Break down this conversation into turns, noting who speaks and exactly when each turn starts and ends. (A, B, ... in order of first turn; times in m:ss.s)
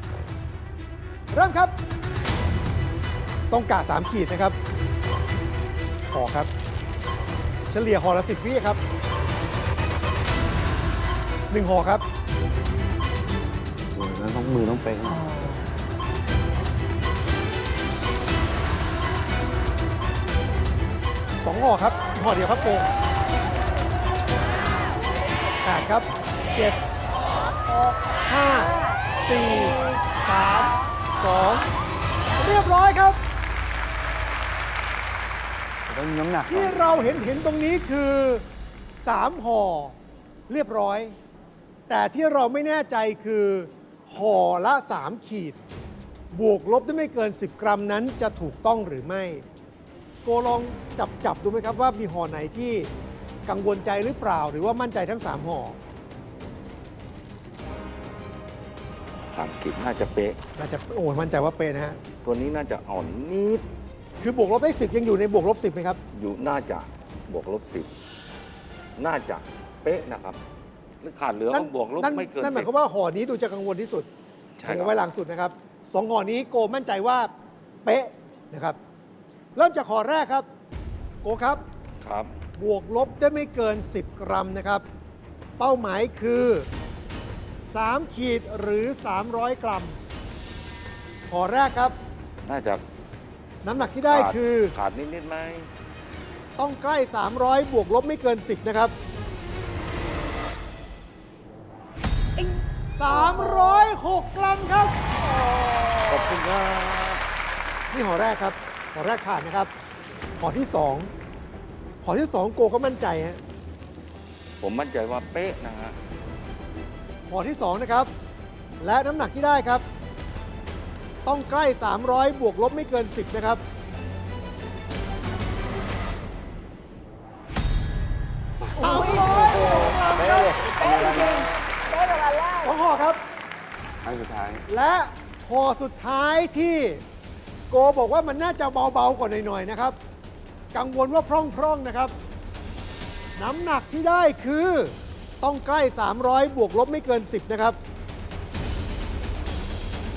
0:01.3-0:01.7 A
0:03.5-0:04.6 A
0:06.1-0:06.5 A
0:07.7-0:08.8 A
0:11.5-0:12.0 A
0:13.9-0:15.4 B
0:15.1-0:15.6 C
0:21.4-0:22.9 A
0:25.6-0:26.8 A
0:27.7-0:31.0 C
0:28.2-0:28.7 A
0:29.2-0:31.7 A
0:32.4-0:33.2 A
0:35.9-0:37.2 B
0:36.5-0:38.4 A
0:39.0-0:40.0 A
0:40.5-0:41.2 A
0:41.9-0:45.6 A
0:46.3-0:49.4 A
0:50.2-0:52.9 A
0:53.4-0:55.8 A
0:59.3-1:00.4 D
1:00.6-1:02.0 A
1:02.2-1:03.6 D
1:04.2-1:06.0 A
1:06.1-1:07.9 D
1:09.0-1:10.4 D
1:11.0-1:12.7 D
1:11.5-1:14.1 A
1:14.6-1:15.0 D
1:14.6-1:17.3 A
1:17.8-1:18.8 A
1:19.6-1:20.5 A
1:21.2-1:21.6 A
1:22.0-1:22.3 D
1:22.6-1:24.8 A
1:25.6-1:26.7 A
1:27.7-1:30.0 A
1:31.3-1:32.0 A
1:32.4-1:32.8 D
1:33.6-1:34.7 A
1:34.0-1:35.7 D
1:36.6-1:38.9 A
1:42.4-1:45.0 A
1:43.1-1:43.9 C
1:45.2-1:46.4 C
1:46.1-1:47.2 D
1:47.9-1:49.7 A
1:50.4-1:51.1 A
1:52.0-1:53.4 A
1:54.6-1:55.9 D
1:57.3-1:58.1 A
1:58.8-1:59.8 A
2:01.2-2:03.6 A
2:08.7-2:11.1 A
2:08.8-2:12.8 C
2:10.3-2:11.3 B
2:10.7-2:11.7 D
2:12.6-2:13.2 A
2:14.0-2:14.6 B
2:14.7-2:17.0 A
2:17.7-2:20.0 A
2:20.7-2:22.1 A
2:23.4-2:27.8 A